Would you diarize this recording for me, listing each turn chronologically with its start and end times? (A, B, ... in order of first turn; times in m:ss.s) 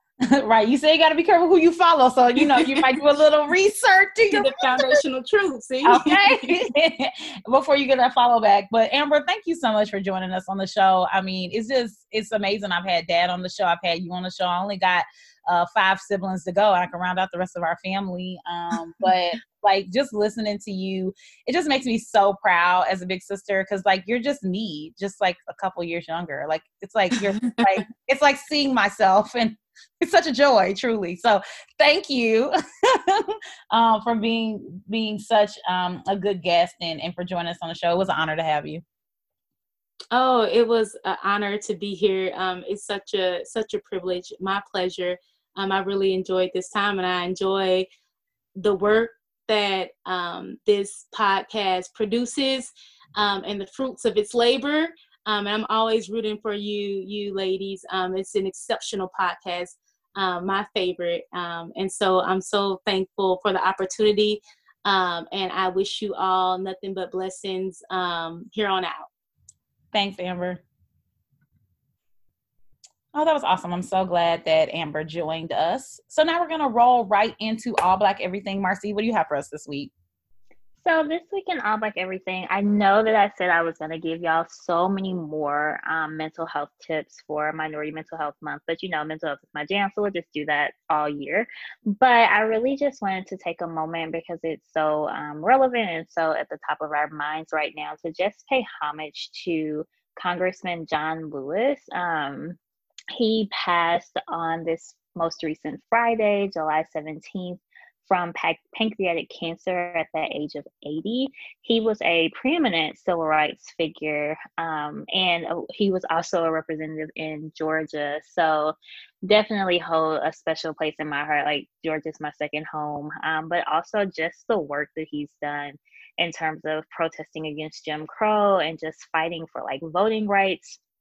0:00.3-0:05.0 A
0:02.4-0:02.9 B
0:04.3-0:06.6 B
0:05.8-0:38.8 A
0:40.1-0:47.9 B
0:48.6-1:09.1 B
1:09.9-1:10.6 A
1:13.2-1:19.9 A
1:20.8-1:42.6 C
1:43.1-1:58.8 C
1:59.3-2:10.8 C